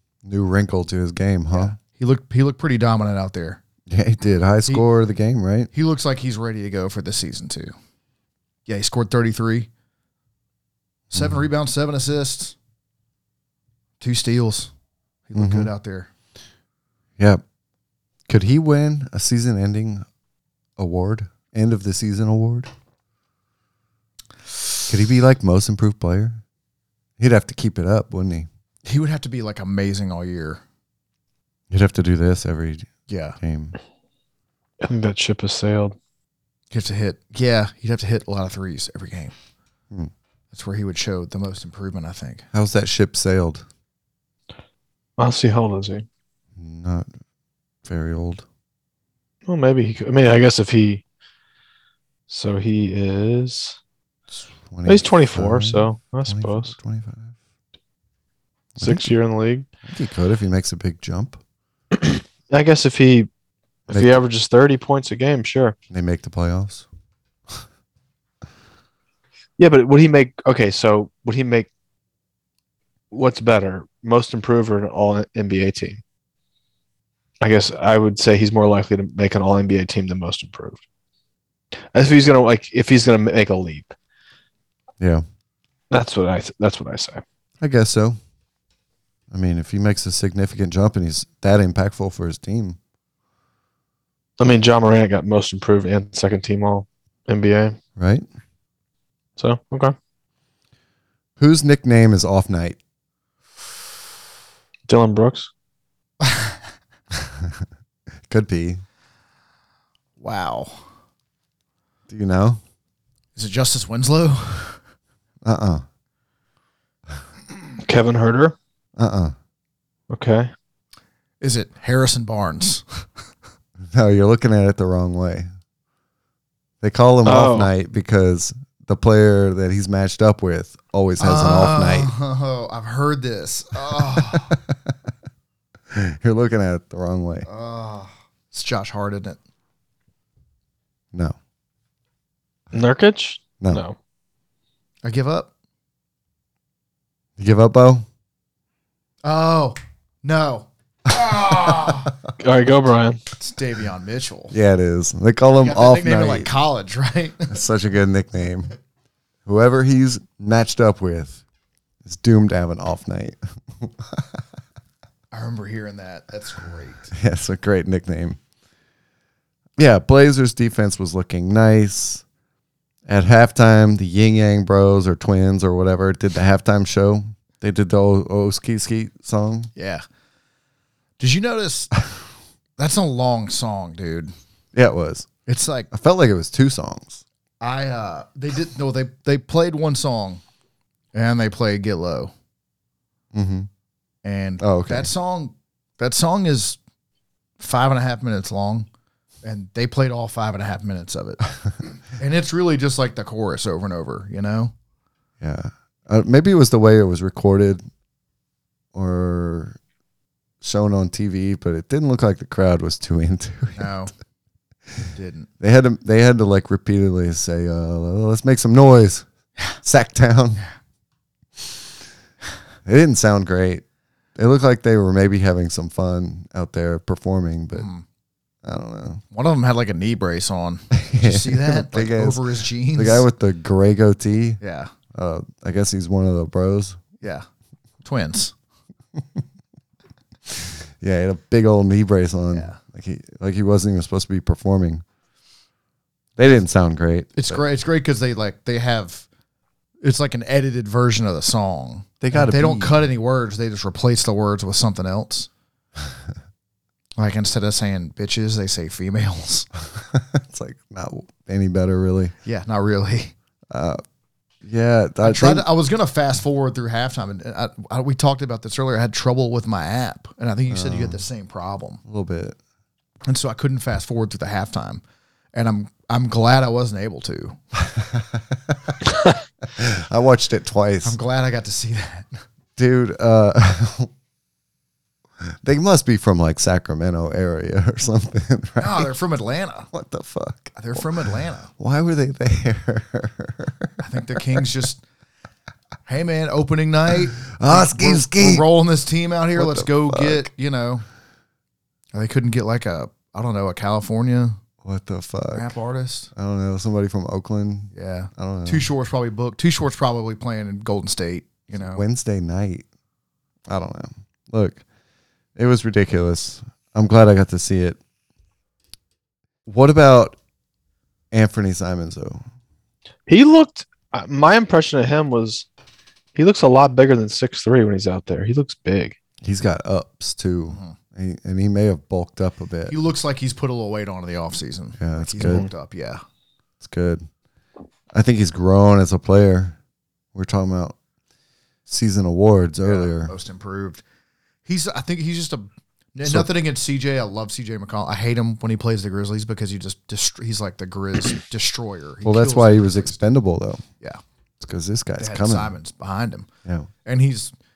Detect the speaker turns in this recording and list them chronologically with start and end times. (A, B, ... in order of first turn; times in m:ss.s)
0:00.2-0:01.8 A
0:01.5-0:03.6 B
0:03.9-0:05.7 A
0:05.7-0:07.7 B
0:08.7-0:09.7 B
0:11.1-0:11.5 A
0:11.1-0:12.6 B
0:14.0-0:14.7 B
0:15.3-0:16.1 B
0:15.4-0:15.7 A
0:18.3-0:20.0 A
0:20.8-0:22.7 A
0:24.9-0:26.4 A
0:27.2-0:28.5 A
0:28.9-0:30.6 B
0:31.7-0:33.8 A
0:33.1-0:33.4 B
0:34.8-0:36.0 C
0:36.7-0:39.3 B
0:40.5-0:42.4 B
0:42.5-0:43.6 A
0:45.2-0:46.1 C
0:46.6-0:47.1 A
0:47.8-0:48.4 A
0:49.5-0:51.0 C
0:52.3-0:53.8 C
0:54.3-0:57.4 A
0:54.9-0:56.7 C
0:58.8-0:59.1 A
0:58.8-0:59.7 C
0:59.8-1:01.4 A
1:02.0-1:03.3 C
1:03.9-1:05.8 C
1:03.9-1:04.2 A
1:05.9-1:06.9 A
1:09.6-1:11.7 C
1:13.1-1:16.0 C
1:17.4-1:20.8 C
1:21.9-1:23.9 C
1:25.9-1:27.2 C
1:27.6-1:28.2 A
1:29.3-1:32.8 A
1:34.4-1:37.8 C
1:38.0-1:38.3 A
1:39.4-1:40.0 C
1:41.4-1:42.8 A
1:44.9-1:45.5 C
1:48.3-1:48.8 A
1:50.2-1:50.9 B
1:52.1-1:52.6 A
1:53.4-1:54.8 B
1:55.4-1:55.8 A
1:57.8-1:58.6 C
1:59.0-1:59.3 A
2:00.1-2:00.5 C
2:01.4-2:03.0 B
2:03.9-2:05.5 A
2:06.8-2:12.1 A
2:07.2-2:07.7 C
2:11.2-2:14.6 B
2:14.2-2:14.9 A
2:15.9-2:17.5 A
2:17.5-2:19.4 B
2:22.7-2:24.0 C
2:25.0-2:25.5 B
2:27.4-2:28.1 A
2:29.2-2:32.1 B
2:32.4-2:33.2 C
2:33.4-2:34.6 B
2:34.5-2:36.5 A
2:35.6-2:37.6 B
2:37.5-2:38.7 A
2:39.4-2:41.4 A
2:42.0-2:44.4 A
2:45.3-2:47.1 B
2:47.1-2:48.4 A
2:49.8-2:52.2 A
2:53.1-2:59.7 A
2:59.8-3:00.0 B
3:01.2-3:01.9 B
3:02.8-3:04.3 B
3:04.7-3:05.3 A
3:05.5-3:05.9 B
3:05.9-3:07.2 A
3:07.6-3:10.4 B
3:11.1-3:12.3 B
3:13.3-3:13.7 A
3:14.2-3:16.8 B
3:14.6-3:15.1 A
3:17.6-3:18.9 B
3:19.4-3:21.4 B
3:22.1-3:24.7 B
3:25.4-3:27.8 A
3:28.9-3:29.8 A
3:30.6-3:34.0 A
3:33.8-3:34.1 B
3:35.1-3:35.5 B
3:35.6-3:39.3 A
3:39.8-3:40.6 A
3:42.8-3:43.8 A
3:44.4-3:47.9 A
3:47.7-3:48.0 B
3:48.6-3:49.2 A
3:49.3-3:53.3 B
3:50.9-3:54.6 A
3:54.6-3:54.9 B
3:55.1-3:57.0 A
3:57.2-3:57.5 B
3:58.0-3:58.5 B
4:00.5-4:05.0 A
4:02.5-4:02.8 B
4:06.4-4:07.6 A
4:07.4-4:09.3 B
4:10.0-4:15.5 B
4:12.2-4:13.0 A
4:17.2-4:19.7 B
4:19.9-4:22.3 A
4:22.4-4:23.3 B
4:23.7-4:24.0 A
4:24.6-4:25.7 A
4:25.2-4:32.0 B
4:30.7-4:31.2 A
4:32.1-4:32.6 A
4:33.3-4:35.0 B
4:35.5-4:37.6 B
4:37.9-4:39.0 A
4:39.7-4:41.2 A
4:41.0-4:42.4 B
4:42.8-4:44.1 A
4:45.4-4:49.1 A
4:48.8-4:49.9 B
4:49.9-4:51.1 A
4:50.8-4:51.7 B
4:51.7-4:54.6 A
4:54.0-4:55.0 B
4:56.1-5:01.0 B
4:57.4-4:58.7 A
4:59.6-5:00.5 A
5:02.1-5:04.6 B
5:04.8-5:05.7 A
5:05.5-5:06.3 B
5:06.3-5:08.9 A
5:07.9-5:12.0 B
5:11.8-5:12.9 A
5:13.7-5:14.8 A
5:15.6-5:18.0 A
5:19.7-5:20.4 A
5:21.3-5:22.4 A
5:23.3-5:25.7 C
5:26.4-5:29.2 C
5:29.4-5:33.0 A
5:30.7-5:31.0 B
5:32.9-5:36.2 B
5:35.0-5:35.7 A
5:36.8-5:37.3 A
5:38.1-5:39.8 A
5:40.3-5:41.0 A
5:41.9-5:43.3 A
5:42.8-5:44.0 B
5:44.7-5:53.2 B
5:46.2-5:46.5 A
5:52.2-5:53.8 A
5:54.6-5:55.8 A
5:55.2-5:56.5 B
5:57.0-5:57.5 B